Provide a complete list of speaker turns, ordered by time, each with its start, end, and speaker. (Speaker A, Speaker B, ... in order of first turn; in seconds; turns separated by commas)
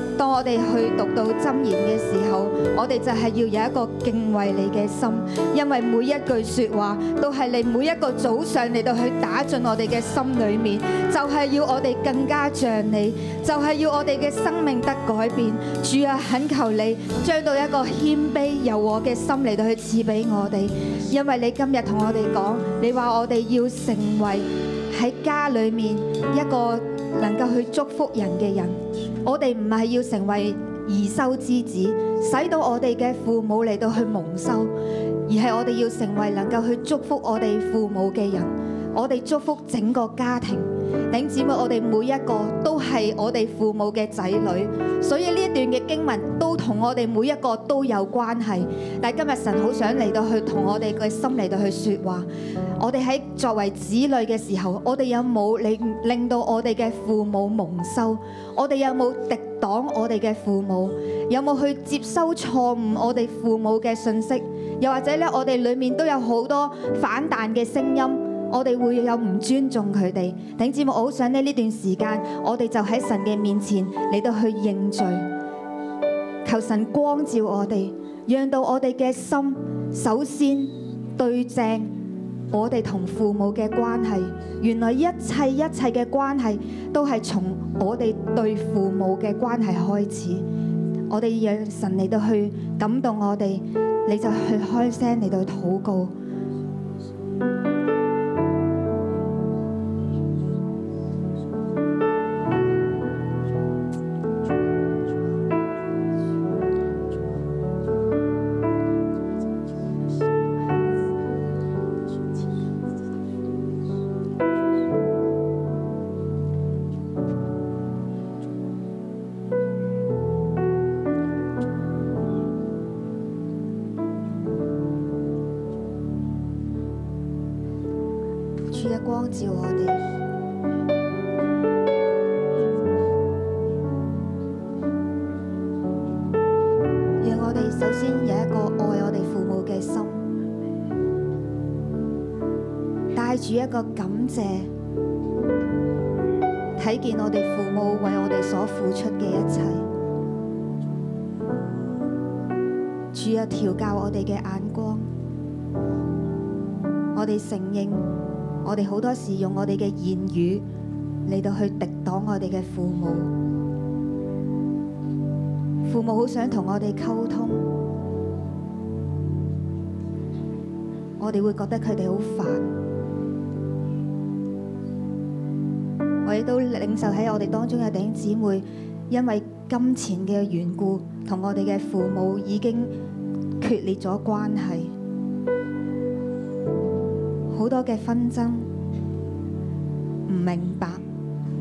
Speaker A: 0.2-34.7, Speaker A: 35.3-52.3, Speaker A: 52.8-75.3, Speaker A: 76.5-81.9, Speaker A: 82.5-90.5, Speaker A: 91.1-96.1, Speaker A: 128.7-130.0, Speaker A: 137.2-140.2, Speaker A: 143.2-144.7, Speaker A: 146.8-149.9, Speaker A: 153.1-155.1, Speaker A: 157.2-158.1, Speaker A: 158.6-160.7, Speaker A: 161.3-163.3, Speaker A: 165.9-167.7, Speaker A: 171.2-172.7, Speaker A: 176.2-182.9, Speaker A: 183.6-184.9, Speaker A: 187.5-188.7, Speaker A: 190.3-191.1